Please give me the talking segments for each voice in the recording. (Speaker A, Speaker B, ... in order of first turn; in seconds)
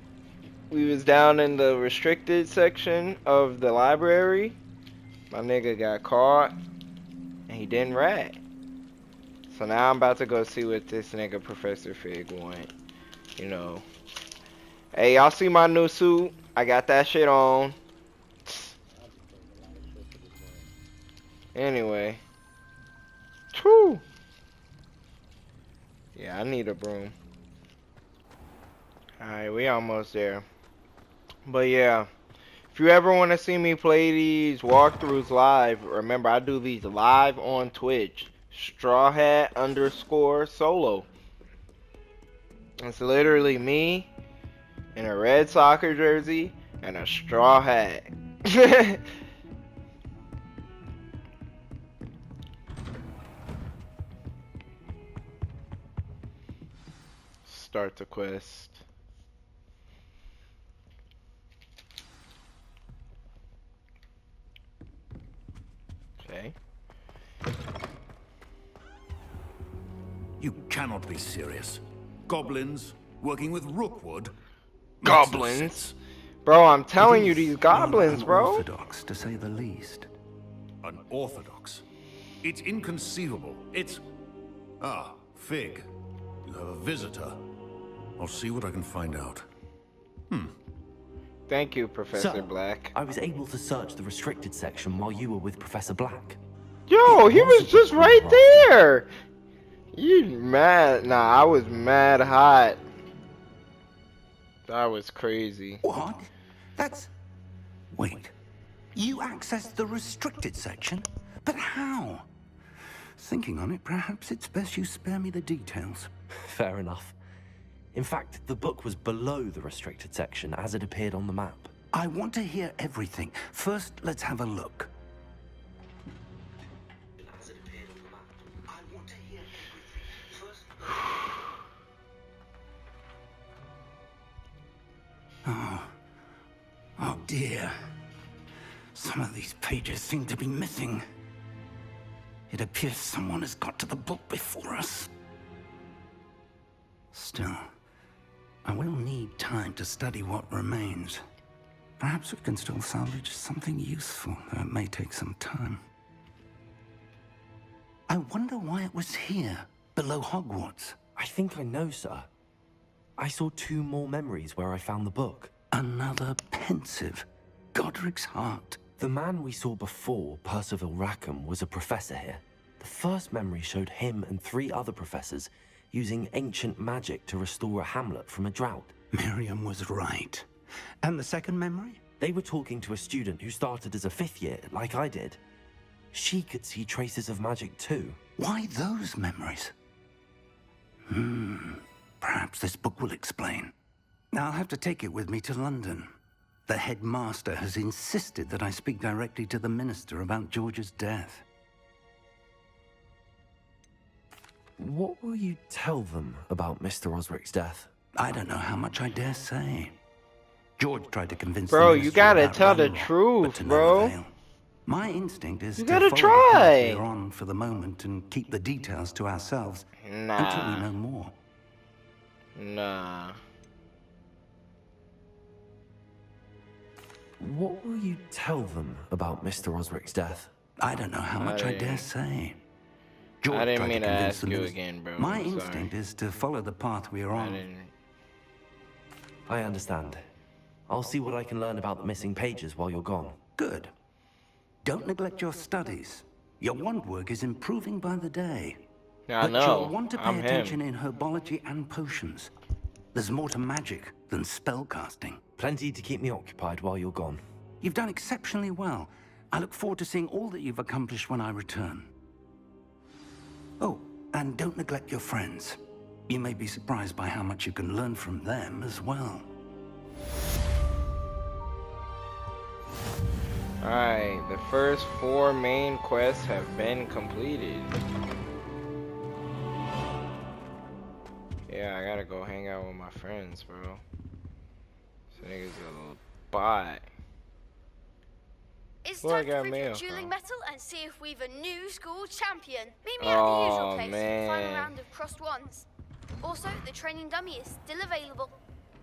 Speaker A: 0.7-4.6, 5.3-6.5, 7.5-8.4, 9.5-12.7, 13.4-13.8, 14.9-17.8, 18.5-18.7, 21.5-22.2, 23.5-24.0, 26.1-27.1, 29.2-30.4, 31.5-32.1, 32.7-41.1, 42.8-44.1, 44.9-49.0, 57.5-58.8, 66.2-66.5, 75.0-75.8, 76.4-78.6, 91.5-92.9, 96.9-99.1, 99.9-102.8, 104.7-105.8, 211.7-214.1, 215.8-217.0, 220.0-220.9, 222.6-223.4, 231.4-232.1, 233.5-235.9, 237.3-237.9, 249.3-250.8, 273.8-277.9, 281.7-284.0, 285.3-287.1, 289.2-290.3, 293.2-294.9
Speaker B: 70.4-74.3, 75.0-75.9, 80.8-81.8, 82.4-84.0, 84.8-85.9, 86.4-87.4, 88.2-89.5
Speaker C: 77.0-80.1, 105.8-107.1, 107.9-108.3, 108.9-112.2, 113.2-116.1, 121.9-124.9, 135.4-135.9, 137.0-137.7, 138.9-141.0, 142.5-145.1, 147.1-147.7, 148.6-151.2, 152.0-155.8, 158.1-161.0, 165.7-168.8, 179.1-180.5, 181.0-182.0, 188.4-189.7, 191.1-193.7, 194.3-196.1, 196.7-201.4, 208.2-209.9, 210.8-214.3, 214.8-219.8, 220.3-221.3, 230.8-232.6, 233.4-237.6, 243.6-243.9, 244.8-248.8, 249.4-252.5, 253.1-255.4, 257.8-262.1, 263.8-269.5
Speaker D: 92.1-96.4, 97.0-98.7, 116.3-117.2, 117.9-121.7, 161.2-162.3, 163.2-165.5, 169.0-178.9, 182.2-185.4, 186.1-188.2, 204.8-207.9, 227.4-230.5, 239.5-240.2, 240.9-243.4, 255.6-257.4
Speaker E: 289.0-295.9, 296.4-298.5